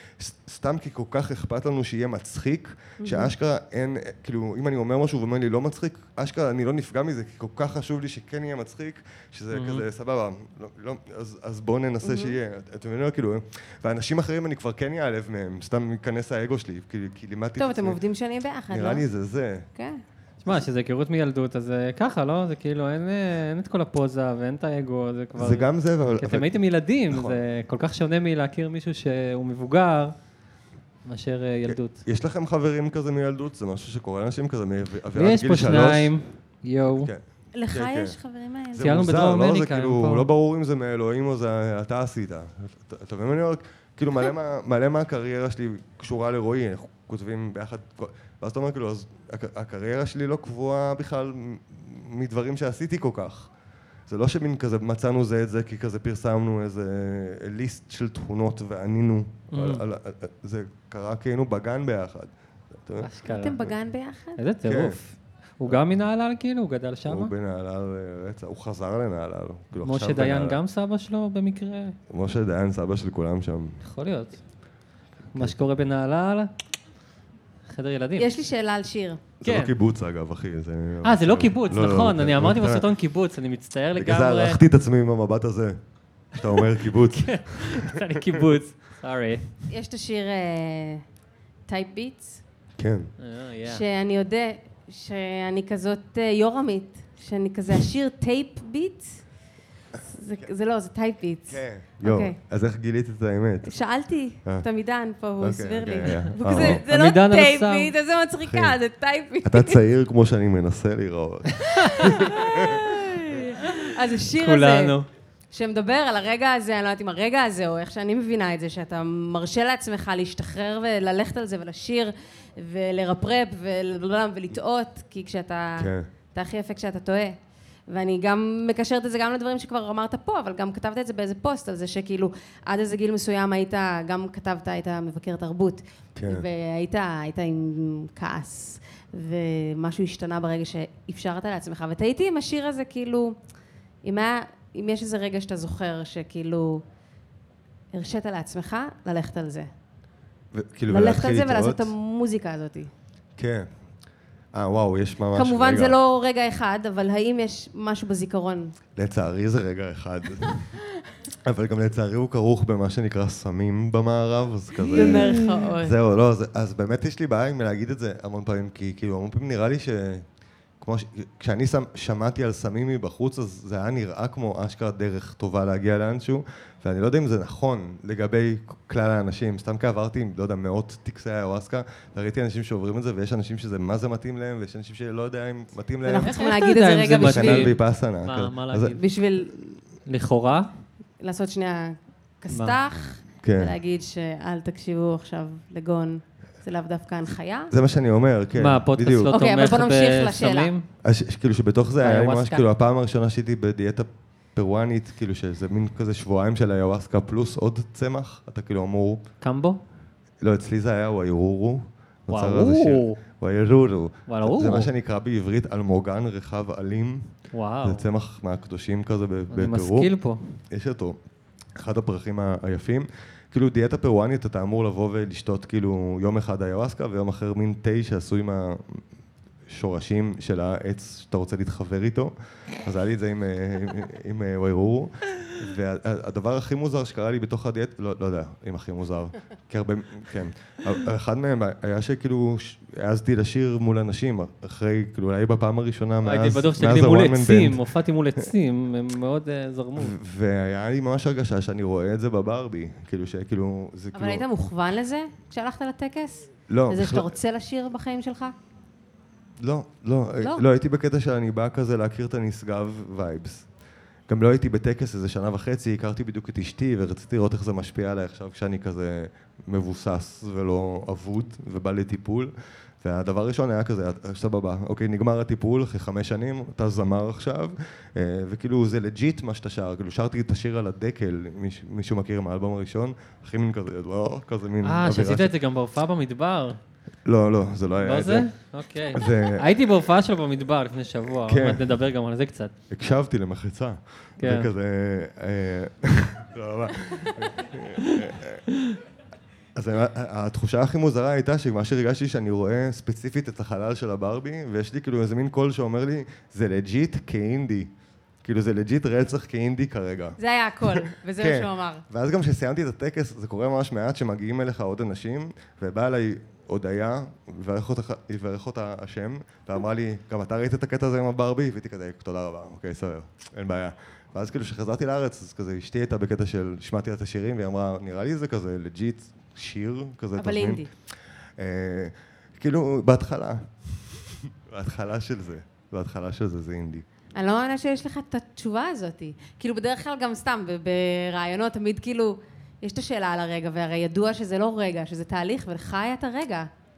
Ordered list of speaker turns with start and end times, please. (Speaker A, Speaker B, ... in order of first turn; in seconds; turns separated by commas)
Speaker A: 0.2-18.0, Speaker B: 3.0-3.3, Speaker C: 9.5-9.8, Speaker B: 12.0-12.3, Speaker B: 17.6-19.0, Speaker A: 18.7-19.7, Speaker C: 20.4-30.1, Speaker A: 25.3-26.5, Speaker A: 27.1-27.4, Speaker C: 31.1-32.0, Speaker A: 31.7-36.1, Speaker C: 35.1-37.1, Speaker A: 36.9-38.2, Speaker B: 37.5-38.9, Speaker A: 38.7-53.5, Speaker C: 38.8-40.3, Speaker A: 54.1-63.1, Speaker C: 59.5-59.8, Speaker C: 63.0-63.6, Speaker B: 63.3-64.4, Speaker C: 64.4-67.3, Speaker A: 64.6-65.0, Speaker A: 67.1-70.6, Speaker C: 69.8-72.0, Speaker A: 72.1-73.8, Speaker C: 73.8-74.4, Speaker C: 75.3-76.5, Speaker C: 77.7-78.3, Speaker B: 78.2-79.2, Speaker A: 79.4-82.8, Speaker C: 79.4-79.7, Speaker C: 81.0-84.6, Speaker A: 84.0-85.8, Speaker A: 86.3-88.4, Speaker C: 87.1-89.5, Speaker B: 89.7-91.0, Speaker B: 91.7-92.4, Speaker A: 92.8-93.1, Speaker C: 93.2-93.8, Speaker B: 93.6-99.2, Speaker B: 100.0-102.3, Speaker A: 101.5-103.7, Speaker B: 103.6-109.8, Speaker A: 105.4-106.8, Speaker C: 106.4-107.9, Speaker A: 108.5-108.8, Speaker A: 109.4-112.9, Speaker C: 111.7-112.1, Speaker B: 111.9-115.0, Speaker C: 113.8-115.1, Speaker B: 115.5-127.4, Speaker A: 125.8-126.1, Speaker B: 127.9-143.4, Speaker A: 136.1-136.4, Speaker B: 144.0-146.8, Speaker B: 147.9-149.7, Speaker A: 150.5-151.9, Speaker B: 150.9-152.9, Speaker A: 153.4-153.7, Speaker A: 154.5-155.9, Speaker B: 155.3-158.7, Speaker A: 158.9-160.7, Speaker A: 161.4-170.2, Speaker B: 164.9-165.9, Speaker C: 164.9-165.4, Speaker A: 170.8-186.3, Speaker B: 186.0-187.7, Speaker C: 186.2-189.0, Speaker A: 187.2-189.0, Speaker B: 188.9-189.5, Speaker C: 190.1-190.7, Speaker B: 191.2-197.7, Speaker A: 193.4-193.7, Speaker A: 197.7-199.3, Speaker C: 198.6-200.8, Speaker B: 199.3-200.7, Speaker A: 201.0-209.2, Speaker C: 202.0-202.6, Speaker C: 209.4-209.8, Speaker A: 210.4-217.3, Speaker C: 212.3-213.2, Speaker C: 214.3-214.9, Speaker C: 217.5-218.0, Speaker A: 217.8-220.1, Speaker C: 219.5-220.5, Speaker A: 220.7-221.2, Speaker A: 221.8-229.0, Speaker A: 229.7-232.3, Speaker A: 232.8-247.8, Speaker C: 246.2-250.1, Speaker A: 249.9-254.4, Speaker B: 254.1-258.5, Speaker A: 256.7-257.3, Speaker A: 259.6-263.7, Speaker A: 264.3-285.5, Speaker C: 284.8-286.8, Speaker A: 287.2-288.5, Speaker C: 288.0-292.7, Speaker A: 289.1-289.7, Speaker A: 291.4-291.8, Speaker A: 292.9-298.6, Speaker C: 294.4-294.7, Speaker A: 299.8-307.9, Speaker A: 308.4-330.8, Speaker B: 310.4-312.0, Speaker B: 330.4-330.9, Speaker A: 331.6-337.0, Speaker B: 337.4-346.7